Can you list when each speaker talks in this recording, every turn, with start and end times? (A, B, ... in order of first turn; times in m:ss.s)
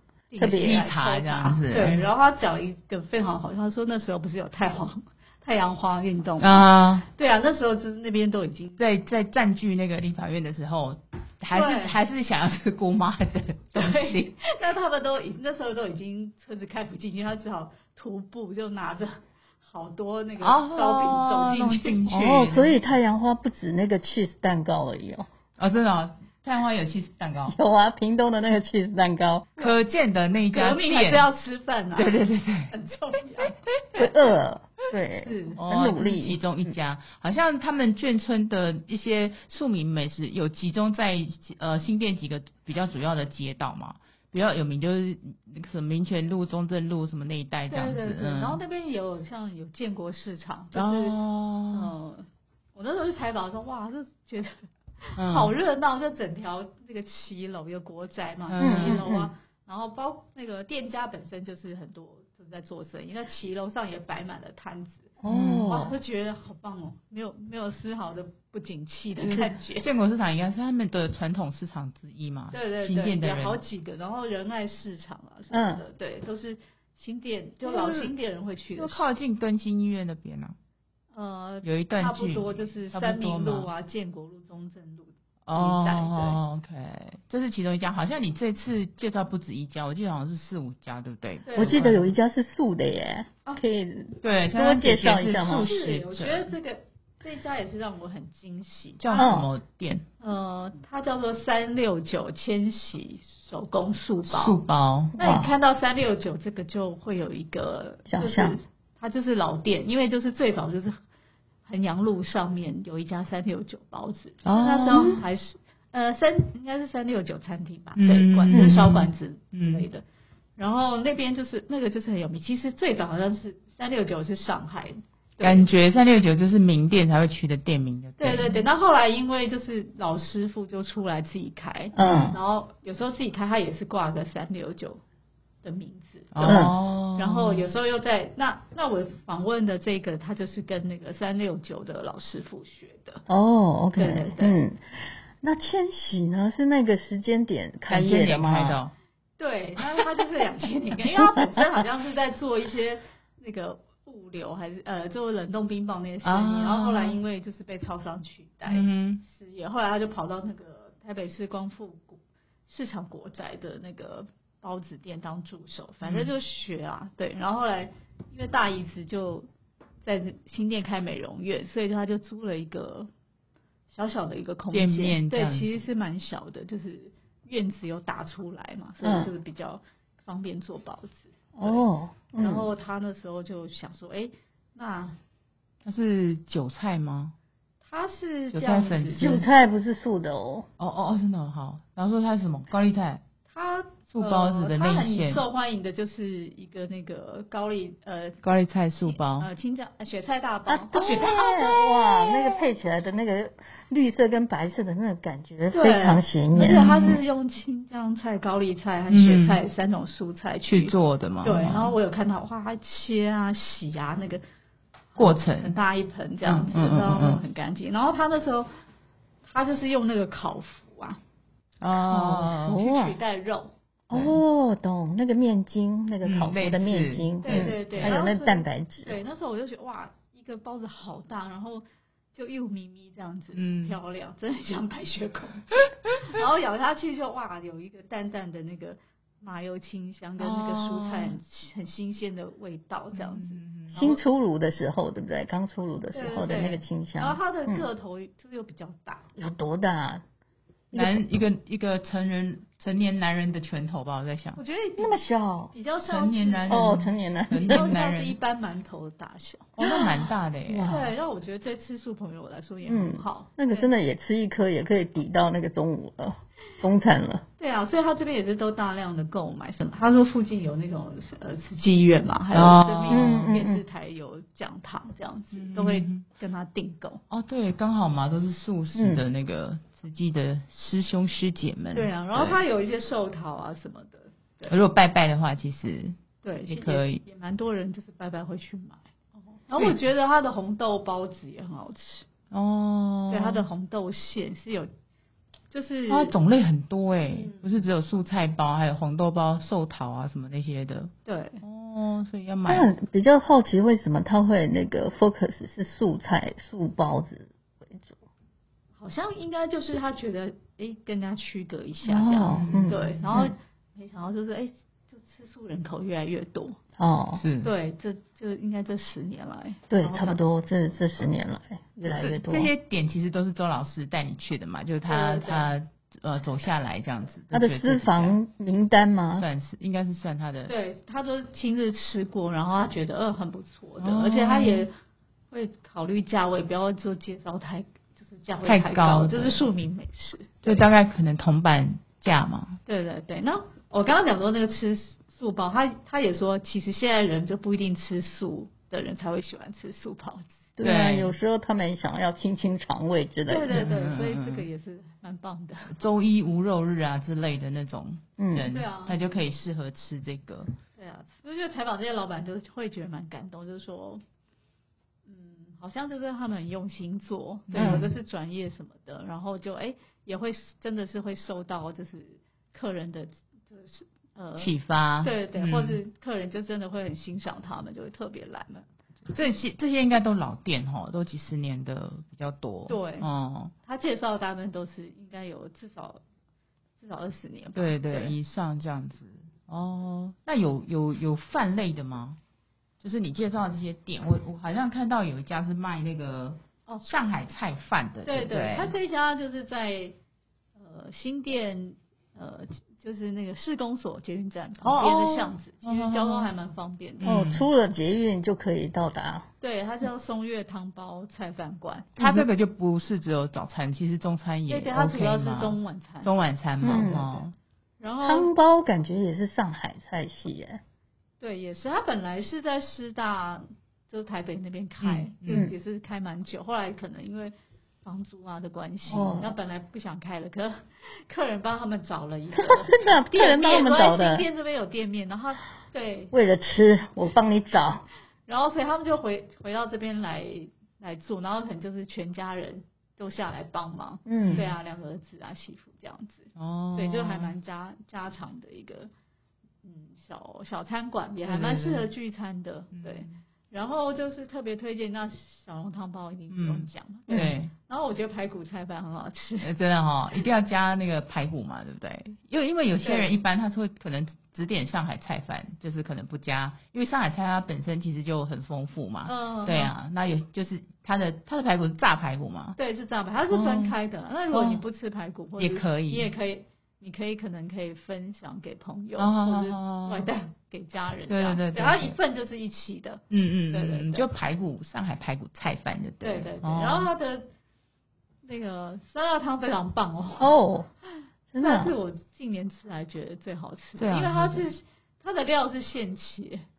0:00.3-0:08.8 A
0:00.4-0:00.9 B
0:00.4-0:02.0 C
0:06.4-0:07.1 C
0:08.8-0:14.3 C
0:11.5-0:12.0 A
0:13.7-0:22.0 A
0:20.4-0:22.9 C
0:22.1-0:25.3 B
0:25.6-0:27.6 C
0:27.5-0:29.5 B
0:29.6-0:31.3 C
0:30.5-0:34.1 A
0:32.0-0:32.7 C
0:34.0-0:36.8 B
0:35.2-0:35.6 A
0:35.6-0:48.6 C
0:47.7-0:51.2 A
0:50.7-0:51.9 C
0:51.7-1:09.9 A
0:55.2-0:55.5 C
0:58.5-0:59.0 C
0:58.6-0:59.3 B
1:05.2-1:06.0 B
1:05.3-1:05.7 C
1:09.2-1:13.6 C
1:12.5-1:19.0 A
1:15.5-1:15.8 B
1:17.6-1:18.1 C
1:18.8-1:20.6 C
1:21.1-1:26.4 A
1:21.6-1:23.7 C
1:25.5-1:32.1 C
1:31.4-1:31.9 A
1:31.6-1:35.7 B
1:34.2-1:36.5 C
1:35.4-1:39.4 A
1:39.0-1:40.0 C
1:39.2-1:39.5 B
1:40.2-1:44.6 A
1:44.3-1:45.2 C
1:45.2-1:51.0 A
1:45.2-1:45.5 B
1:48.1-1:48.6 B
1:51.7-2:00.0 A
1:54.4-1:55.1 C
1:54.9-1:55.2 B
1:58.0-1:59.8 C
1:58.5-1:58.9 B
2:00.6-2:05.7 A
2:05.4-2:08.6 C
2:08.2-2:15.0 A
2:12.0-2:12.4 B
2:12.0-2:12.3 C
2:15.6-2:23.2 A
2:16.4-2:17.6 C
2:16.4-2:16.7 B
2:23.3-2:28.8 B
2:24.0-2:24.6 A
2:27.9-2:28.9 C
2:29.4-2:49.5 A
2:29.8-2:30.0 C
2:36.2-2:37.2 C
2:38.7-2:39.2 C
2:46.0-2:46.3 C
2:50.0-2:53.1 A
2:53.9-3:01.8 A
2:54.7-2:55.7 C
2:59.0-2:59.3 B
3:01.6-3:02.7 B
3:02.4-3:05.2 A
3:05.8-3:07.3 C
3:07.8-3:09.4 A
3:08.5-3:09.4 C
3:09.2-3:10.7 B
3:10.8-3:13.2 C
3:13.5-3:18.4 A
3:14.1-3:15.4 C
3:18.4-3:19.5 C
3:19.0-3:22.7 A
3:20.7-3:26.9 B
3:25.7-3:34.4 A
3:26.6-3:27.2 C
3:29.1-3:29.6 C
3:30.7-3:32.0 C
3:35.2-3:35.8 C
3:35.2-3:38.7 A
3:36.4-3:37.4 C
3:39.4-3:41.2 A
3:41.8-3:42.8 C
3:41.9-3:43.2 B
3:42.7-3:43.7 A
3:44.1-3:49.2 B
3:44.1-3:44.4 C
3:46.2-3:48.1 C
3:47.4-4:04.2 A
3:53.5-3:54.0 C
4:00.4-4:01.4 C
4:03.1-4:03.9 C
4:03.9-4:07.9 B
4:06.1-4:09.2 A
4:09.4-4:10.2 B
4:10.9-4:11.2 B
4:10.9-4:14.6 C
4:14.6-4:15.2 A
4:15.0-4:15.7 B
4:15.7-4:17.0 A
4:16.1-4:18.4 C
4:16.7-4:17.9 B
4:17.6-4:20.1 A
4:19.8-4:20.9 C
4:19.8-4:20.2 B
4:20.7-4:21.1 B
4:20.9-4:23.9 A
4:22.9-4:27.4 B
4:27.6-4:37.2 A
4:32.5-4:33.4 C
4:33.1-4:33.8 B
4:35.5-4:36.2 C
4:37.3-4:42.6 C
4:39.0-4:39.2 B
4:41.9-4:44.8 A
4:44.7-4:47.2 C
4:46.4-4:52.3 A
4:52.5-4:53.6 C
4:53.3-4:54.9 A
4:55.7-4:56.4 A
4:56.1-5:02.9 C
4:57.3-4:57.9 A
5:01.3-5:01.6 A
5:02.7-5:08.2 B
5:09.0-5:16.8 A
5:12.0-5:13.5 B
5:12.5-5:13.3 C
5:17.0-5:17.4 B
5:17.4-5:17.7 C
5:17.6-5:20.4 A
5:19.9-5:22.7 B
5:22.1-5:28.4 C
5:25.1-5:25.8 A
5:27.5-5:29.5 B
5:29.4-5:30.7 C
5:30.7-5:34.9 A
5:34.0-5:34.9 C
5:35.5-5:40.9 A
5:38.6-5:39.7 C
5:40.6-5:42.8 C
5:42.9-5:50.5 A
5:50.8-5:53.9 B
5:50.8-5:51.3 C
5:53.5-5:56.0 A
5:53.7-5:54.7 C
5:55.9-6:00.7 C
5:58.4-5:58.7 B
5:58.7-5:59.2 A
6:01.0-6:04.2 A
6:05.3-6:18.9 A
6:07.7-6:08.1 C
6:07.8-6:08.1 B
6:14.6-6:16.0 C
6:19.3-6:23.7 C
6:22.9-6:23.3 A
6:23.9-6:26.2 A
6:27.0-6:28.4 A
6:27.8-6:32.4 C
6:33.0-6:38.9 C
6:38.3-6:40.2 A
6:40.8-6:47.3 A
6:44.8-6:46.5 C
6:47.2-6:47.7 C
6:47.3-6:49.5 B
6:49.6-6:52.2 A
6:52.2-6:57.5 C
6:52.2-6:52.5 B
6:54.7-6:56.3 A
6:56.8-6:57.3 B
6:56.9-6:57.4 A
6:58.0-6:58.5 A
6:58.2-7:00.8 B
7:01.4-7:07.5 A
7:05.0-7:05.7 C
7:08.0-7:16.3 A
7:09.1-7:09.6 B
7:12.6-7:14.4 B
7:16.3-7:18.0 B
7:18.5-7:29.1 A
7:24.3-7:24.6 B
7:24.4-7:24.7 C
7:26.6-7:27.5 C
7:29.8-7:39.7 A
7:31.4-7:32.1 C
7:32.9-7:33.4 C
7:36.5-7:37.7 C
7:39.6-7:52.8 C
7:43.0-7:43.3 A
7:49.3-7:49.9 A
7:52.8-8:04.3 A
7:53.5-7:54.0 C
7:54.5-7:54.8 C
7:55.6-7:56.3 C
7:59.2-8:00.3 C
8:01.3-8:02.2 C
8:03.3-8:07.1 C
8:06.2-8:07.5 A
8:08.4-8:10.5 A
8:10.4-8:10.9 B
8:11.5-8:11.9 B
8:11.6-8:16.6 A
8:14.0-8:14.7 C